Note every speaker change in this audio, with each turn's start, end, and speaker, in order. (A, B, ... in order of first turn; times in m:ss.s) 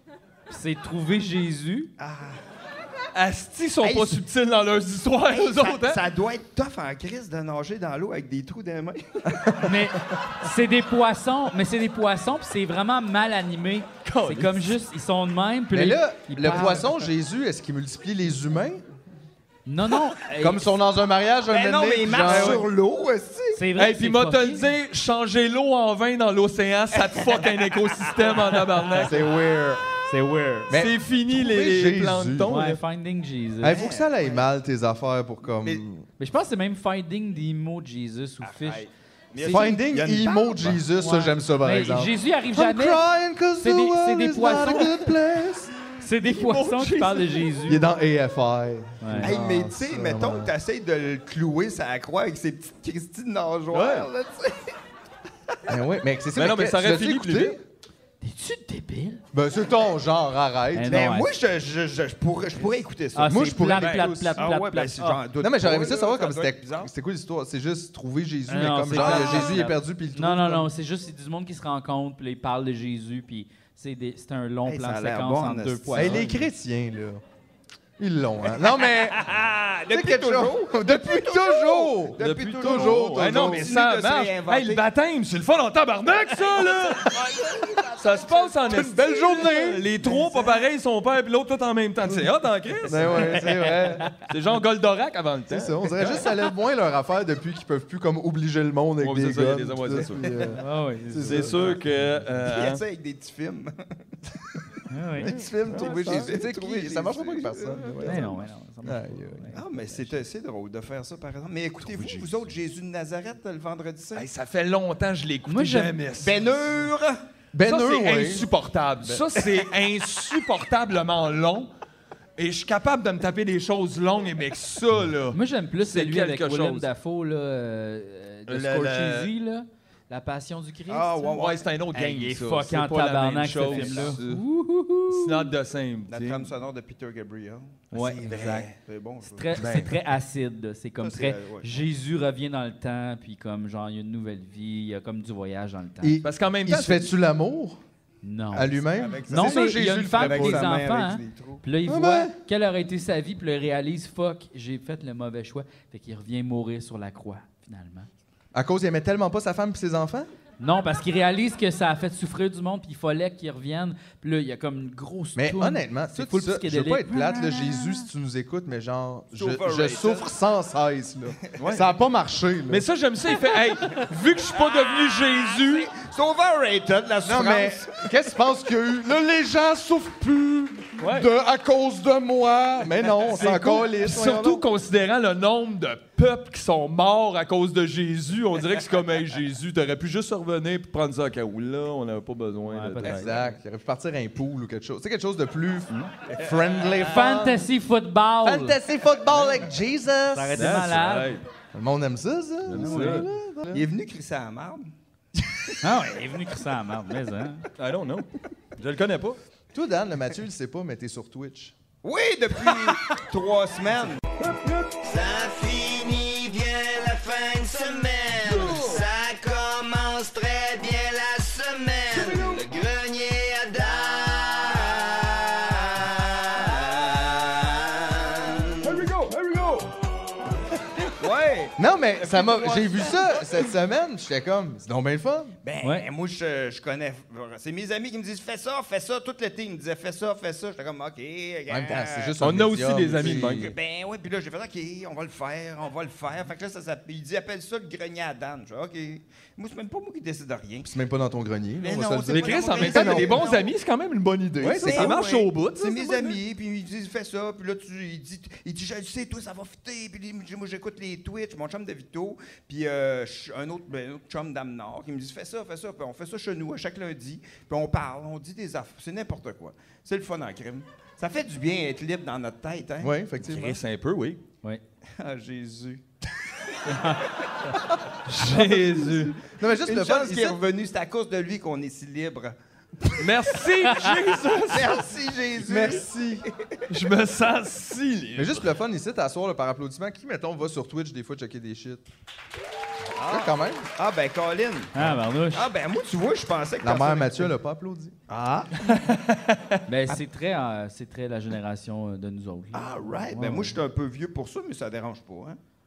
0:00.5-0:01.9 A
0:02.0-0:02.4 B
0:03.2-0:06.0 C
0:03.8-0:04.2 B
0:05.3-0:09.5 B
0:09.6-0:17.0 A
0:14.0-0:14.8 C
0:15.7-0:18.8 D
0:19.7-0:20.7 A
0:20.4-0:22.7 D
0:21.5-0:23.6 B
0:22.2-0:22.6 C
0:23.5-0:24.7 A
0:23.8-0:29.2 C
0:26.9-0:28.8 B
0:28.9-0:29.8 D
0:30.1-0:30.7 A
0:30.7-0:32.6 D
0:30.7-0:32.8 C
0:32.5-0:33.9 A
0:33.6-0:36.0 D
0:33.6-0:34.5 B
0:36.2-0:39.8 A
0:38.4-0:40.7 B
0:39.4-0:45.7 D
0:41.0-0:43.0 A
0:43.6-0:45.1 A
0:46.0-0:47.9 A
0:46.2-0:47.5 C
0:47.7-0:50.5 D
0:49.0-0:49.3 A
0:49.2-0:54.8 B
0:53.7-0:54.1 C
0:55.7-0:57.6 D
0:56.4-0:57.6 C
0:58.2-0:59.2 A
0:59.3-1:01.0 D
1:00.7-1:01.3 A
1:00.9-1:03.5 B
1:03.1-1:05.2 A
1:03.2-1:04.5 D
1:03.8-1:04.1 C
1:04.4-1:06.9 B
1:05.4-1:10.7 D
1:08.5-1:16.5 A
1:08.9-1:09.7 B
1:14.6-1:16.3 B
1:15.9-1:17.2 D
1:18.0-1:19.2 D
1:18.7-1:24.8 B
1:19.9-1:23.8 D
1:22.2-1:27.2 C
1:27.0-1:28.5 B
1:28.0-1:33.4 C
1:28.6-1:29.9 D
1:30.1-1:30.5 B
1:32.8-1:34.1 D
1:33.4-1:33.7 A
1:34.2-1:36.3 C
1:35.5-1:41.8 D
1:39.0-1:40.5 C
1:40.6-1:41.8 A
1:41.2-1:42.8 C
1:42.5-1:44.6 B
1:44.9-1:45.3 A
1:45.2-1:49.5 D
1:45.6-1:46.4 C
1:45.7-1:48.4 B
1:48.0-1:50.2 A
1:49.5-1:54.3 B
1:51.8-1:52.5 C
1:54.2-1:56.8 C
1:55.5-1:56.0 A
1:56.2-1:57.2 B
1:57.5-1:58.5 D
1:57.6-2:01.7 C
1:59.0-1:59.3 D
2:02.4-2:06.9 C
2:05.3-2:11.4 A
2:08.5-2:09.3 C
2:10.9-2:12.4 B
2:11.3-2:14.4 C
2:12.2-2:15.5 A
2:13.6-2:14.2 B
2:15.1-2:16.5 C
2:16.1-2:19.7 B
2:17.9-2:18.7 A
2:18.0-2:18.8 C
2:19.2-2:26.2 A
2:19.6-2:20.0 C
2:21.0-2:21.8 B
2:26.0-2:27.8 D
2:26.2-2:27.1 C
2:28.2-2:38.1 A
2:28.5-2:30.7 D
2:28.9-2:31.6 B
2:31.8-2:32.4 D
2:38.5-2:40.3 D
2:40.6-2:48.0 A
2:45.4-2:52.9 D
2:49.3-2:50.3 B
2:51.6-2:51.9 C
2:52.7-2:55.9 C
2:54.5-2:58.1 B
2:57.2-3:04.6 D
3:01.0-3:01.3 C
3:03.2-3:13.4 C
3:12.7-3:13.5 A
3:13.0-3:17.7 D
3:16.3-3:17.1 B
3:17.0-3:18.8 A
3:18.4-3:20.9 D
3:20.3-3:21.4 A
3:20.6-3:21.4 C
3:21.7-3:23.9 D
3:22.7-3:23.2 C
3:22.7-3:23.3 A
3:23.7-3:24.9 B
3:25.8-3:27.6 A
3:27.8-3:29.4 C
3:29.7-3:31.7 D
3:32.0-3:34.2 B
3:35.0-3:48.7 E
3:48.8-3:49.6 C
3:51.2-3:51.8 B
3:51.8-3:55.5 D
3:52.5-3:53.5 B
3:55.6-4:02.4 B
3:55.8-3:56.1 A
4:01.7-4:03.7 D
4:02.4-4:03.7 C
4:03.1-4:10.9 B
4:10.8-4:13.4 D
4:11.8-4:13.7 B
4:12.3-4:16.4 C
4:14.6-4:15.2 D
4:14.8-4:33.8 B
4:33.0-4:33.8 D
4:33.5-4:34.4 C
4:35.2-4:36.0 B
4:38.3-4:39.4 C
4:38.5-4:40.6 D
4:39.7-4:43.2 B
4:43.2-4:45.0 C
4:43.9-4:44.2 A
4:44.7-4:46.8 B
4:45.6-4:46.5 D
4:46.9-4:48.7 C
4:48.4-4:52.0 D
4:53.2-4:54.9 B
4:53.2-4:53.9 D
4:54.9-4:55.7 A
4:55.5-4:57.5 B
4:56.8-4:58.2 D
4:58.3-4:58.7 B
4:58.8-4:59.8 C
4:59.9-5:03.8 A
5:02.7-5:05.6 B